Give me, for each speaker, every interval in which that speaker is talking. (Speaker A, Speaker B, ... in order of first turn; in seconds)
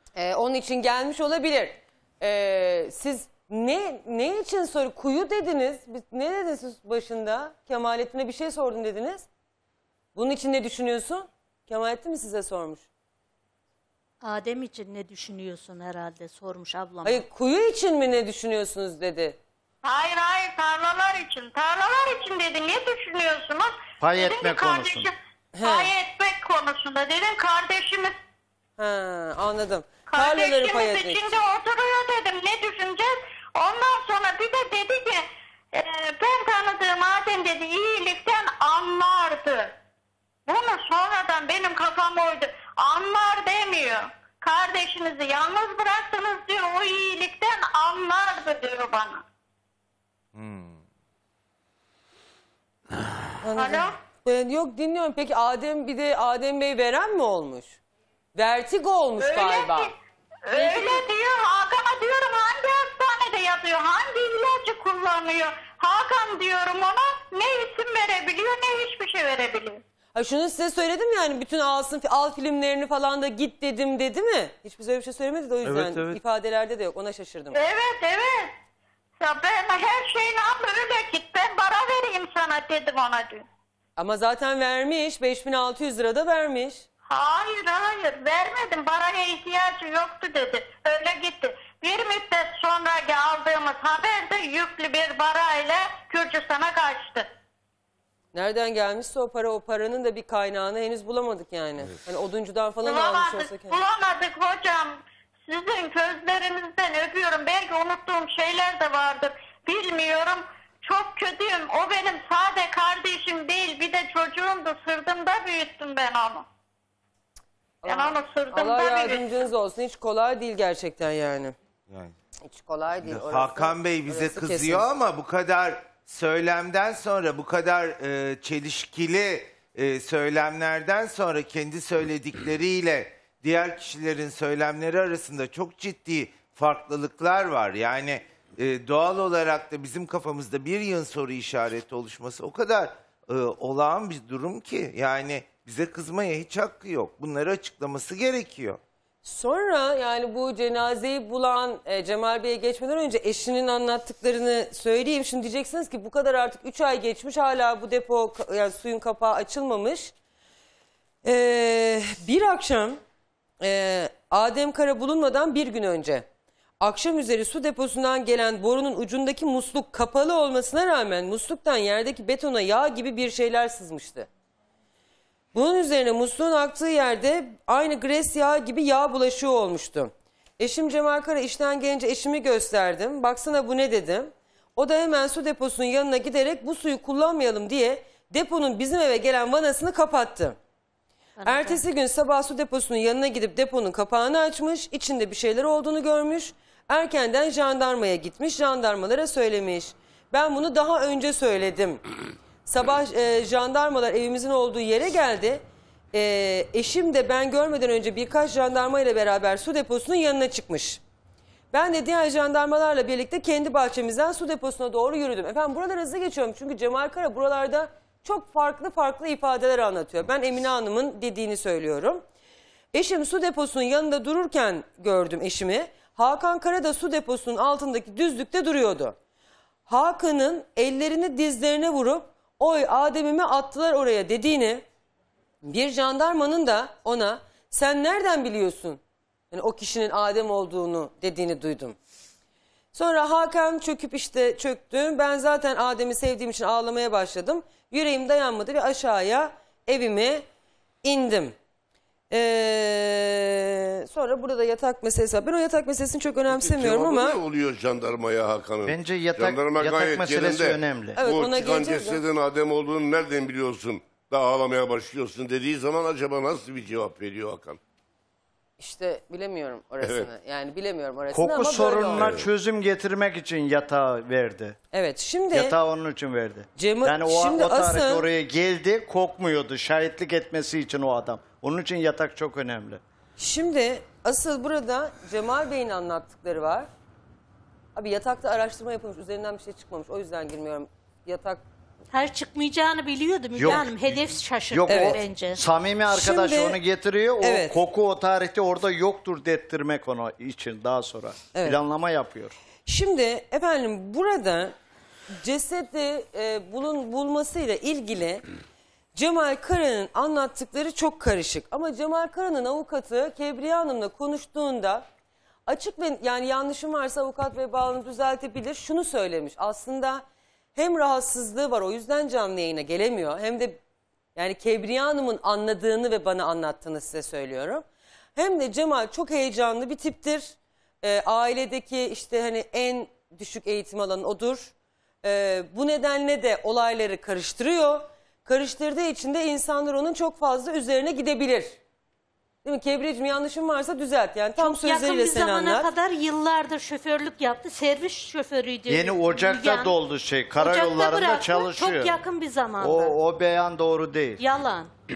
Speaker A: 0.1-9.3, 10.1-12.8, 17.0-19.4, 25.5-25.9, 28.8-31.3, 53.4-57.8, 58.3-59.9, 60.5-61.0, 70.1-77.6, 84.0-86.8, 98.3-103.8, 117.8-121.5, 122.4-124.9, 149.2-160.1, 161.2-163.0, 163.6-166.2, 166.8-174.3, 175.5-190.6, 191.4-202.0, 202.7-211.0, 211.7-222.2, 222.9-229.2, 229.9-234.8, 235.6-239.0, 239.5-241.9, 242.9-250.4, 251.0-251.5, 252.3-257.4, 261.1-262.2, 268.8-272.2, 274.9-275.7, 276.8-278.2, 283.4-286.9, 287.9-291.6, 296.1-296.8, 297.4-297.7, 302.9-304.7, 305.3-308.4, 309.1-315.1, 315.7-320.2, 320.7-323.8, 324.4-327.8, 328.4-341.8, 342.6-345.9
Speaker B: 14.2-17.2, 191.4-191.9, 292.1-295.6, 344.6-349.9, 350.5-353.1, 354.4-354.9
Speaker C: 19.8-28.1, 30.1-35.2, 35.7-39.7, 40.5-49.2, 53.5-53.9, 59.2-59.9, 60.5-69.8, 77.5-78.5, 79.2-83.4, 87.1-97.2, 102.8-116.4, 117.8-119.4
Speaker D: 24.0-25.1, 258.8-261.2, 271.3-274.8, 275.5-283.0, 293.6-302.6, 348.9-352.2, 352.8-354.4
Speaker E: 50.3-50.8, 75.6-76.2, 123.0-148.8
Speaker F: 256.5-267.8, 270.0-270.3, 272.1-272.5